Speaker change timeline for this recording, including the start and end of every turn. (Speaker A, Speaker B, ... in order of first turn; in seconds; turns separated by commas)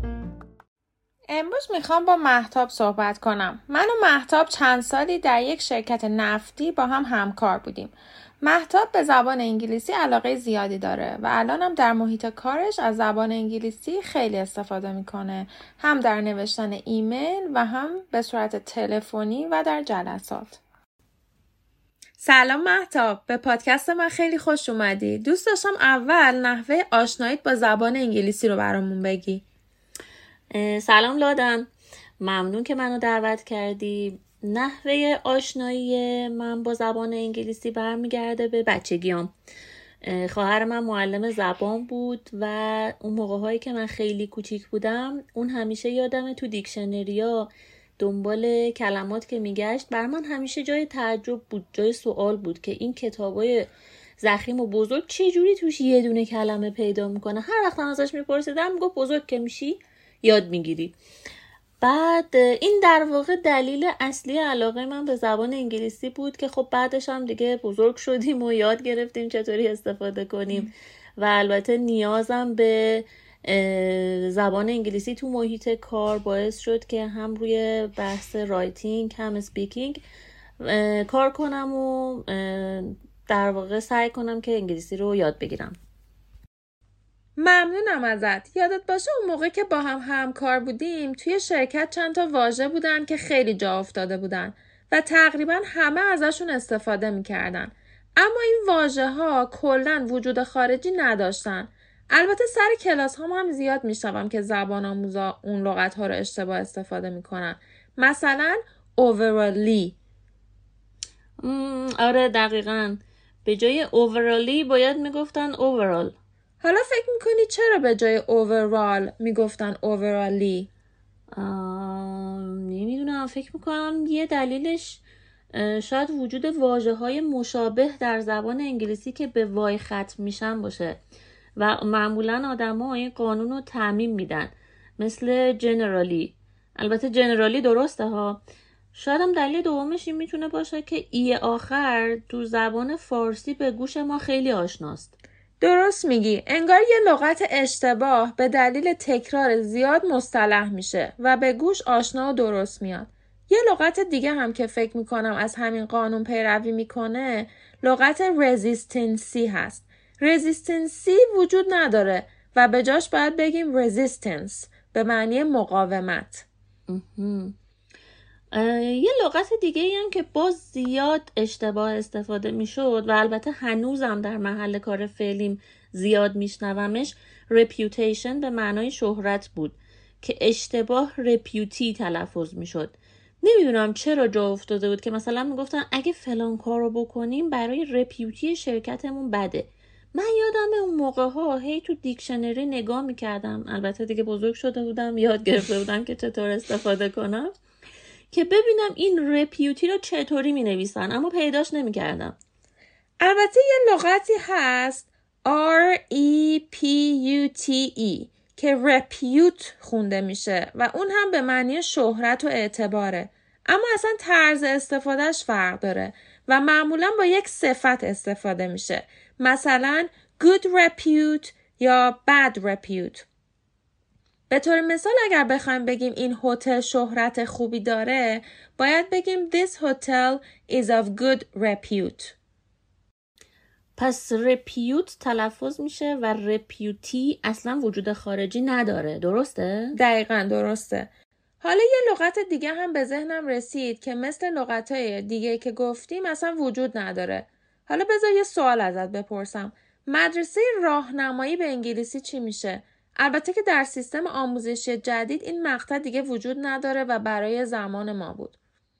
Speaker A: 1.3-20.6, Speaker A: 22.2-29.4, Speaker B: 30.5-31.7, Speaker B: 32.2-39.3, Speaker B: 40.0-53.7, Speaker B: 54.2-60.9, Speaker B: 61.8-80.0, Speaker B: 80.6-85.8, Speaker A: 87.4-109.9, Speaker B: 111.4-116.1, Speaker A: 116.6-120.7, Speaker B: 121.3-131.0, Speaker B: 131.6-138.4, Speaker B: 138.9-145.1, Speaker A: 145.6-166.4, Speaker B: 166.9-167.5, Speaker B: 168.5-197.5, Speaker B: 198.3-202.3, Speaker A: 203.2-223.2, Speaker A: 224.5-232.3, Speaker B: 234.0-240.0, Speaker A: 239.9-241.1, Speaker A: 241.6-258.5